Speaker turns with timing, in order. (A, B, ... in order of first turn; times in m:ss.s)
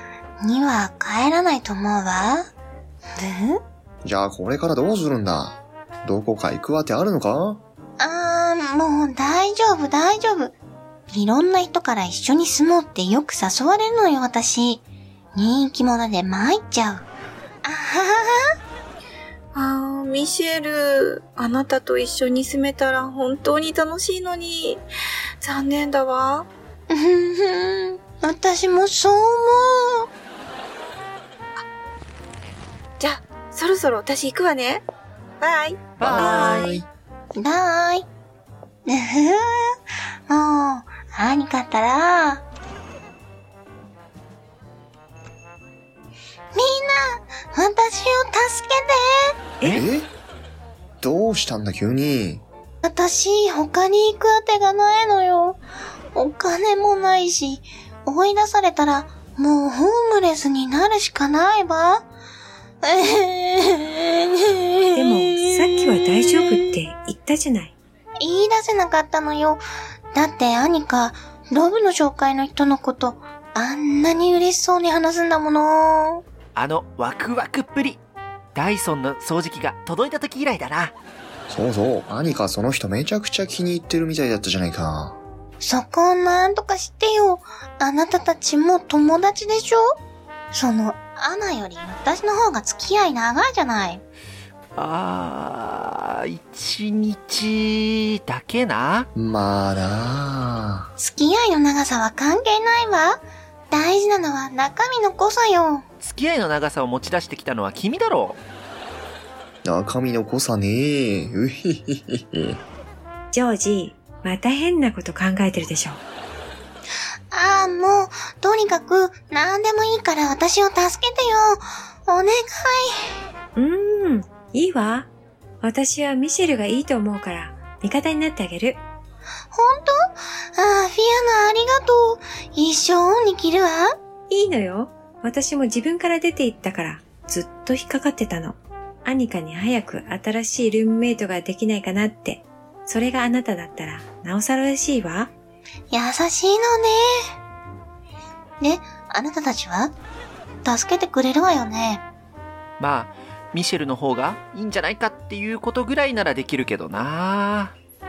0:00.4-0:02.5 A
0:03.1-0:03.6 A
0:04.0-0:07.6 B
0:08.0-0:10.5 A
0:11.1-0:14.8 A
0:15.3-0:17.0 A
0:17.6-0:18.5 A
0:19.5-0:24.8 C
0:25.4-0:26.5 C
0:26.9-0:30.1 A
0:33.0-0:34.8 C
0:35.4-0:35.9 C
0:36.0-0:36.7 D
0:36.0-0:36.8 B
0:36.1-0:36.8 E
0:37.3-0:38.1 A
0:38.8-0:42.4 A
0:46.5-0:49.3 A
0:49.6-0:50.1 B
0:51.0-0:52.4 B
0:52.8-0:55.6 A
0:56.1-1:02.0 A
1:02.8-1:06.6 A
1:04.9-1:07.7 E
1:08.2-1:09.6 A
1:10.1-1:16.2 A
1:16.5-1:18.0 D
1:18.5-1:20.9 D
1:21.5-1:25.2 B
1:25.6-1:29.9 A
1:30.5-1:34.0 A
1:34.7-1:39.1 D
1:39.1-1:40.9 B
1:41.0-1:45.8 A
1:46.0-1:48.4 D
1:49.6-1:52.6 B
1:53.3-1:56.0 E
1:57.3-2:03.2 A
2:03.6-2:05.1 E
2:05.6-2:08.8 E
2:09.5-2:14.0 A
2:14.3-2:25.3 E
2:25.9-2:27.3 A
2:28.6-2:29.9 A
2:30.6-2:32.0 A
2:32.8-2:37.7 D